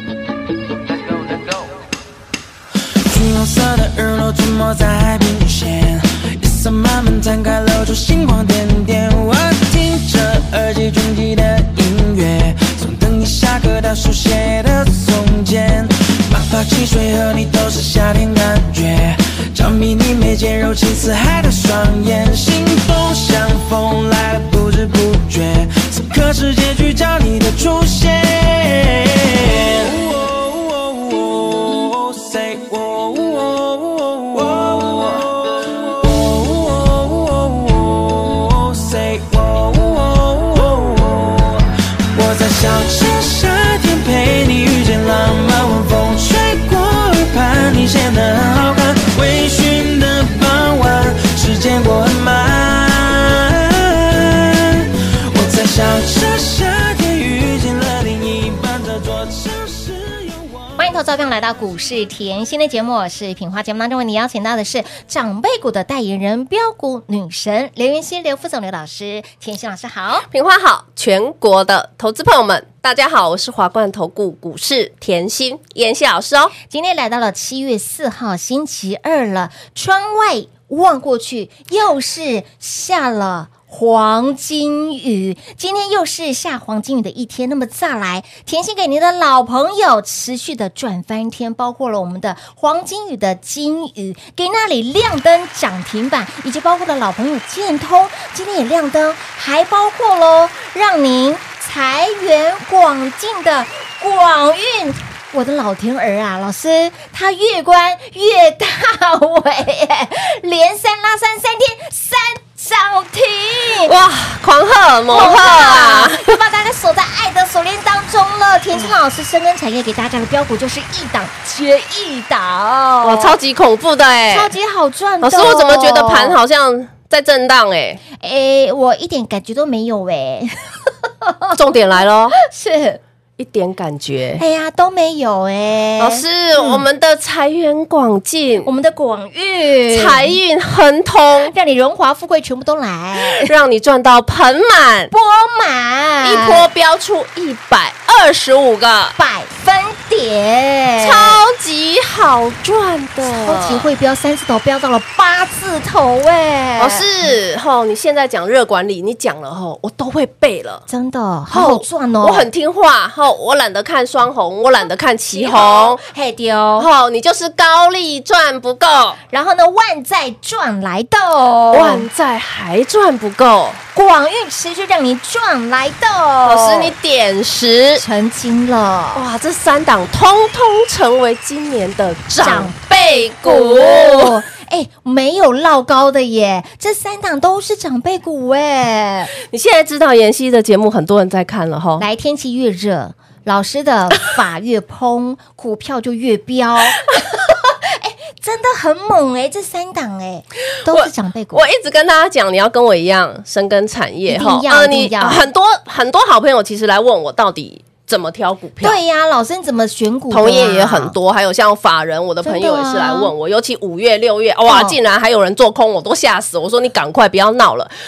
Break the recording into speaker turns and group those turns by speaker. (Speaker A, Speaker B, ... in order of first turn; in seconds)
Speaker A: 3.0-60.8
Speaker B: 60.8-70.2, 76.6-113.9, 115.1-123.4, 124.3-126.4, 128.2-131.6, 132.4-133.0, 134.4-136.8, 138.6-140.4, 141.5-143.5, 145.1-146.7, 149.2-151.4, 153.2-157.3, 160.9-162.5, 165.3-166.9, 169.3-172.1, 173.9-176.9, 178.0-179.2, 182.4-189.3, 192.0-201.7, 204.3-205.5, 208.8-211.2, 212.4-213.3, 214.7-215.0
Speaker C: 70.3-76.5, 113.9-116.3, 123.0-124.5, 125.2-128.0, 131.5-132.4, 133.4-134.4, 136.0-138.7, 139.9-141.5, 143.4-145.1, 146.2-149.2, 151.0-153.9, 156.8-160.8, 161.5-166.0, 166.8-169.2, 171.7-173.8, 176.4-178.0, 179.2-184.4, 189.5-192.0, 200.9-209.0, 210.3-217.9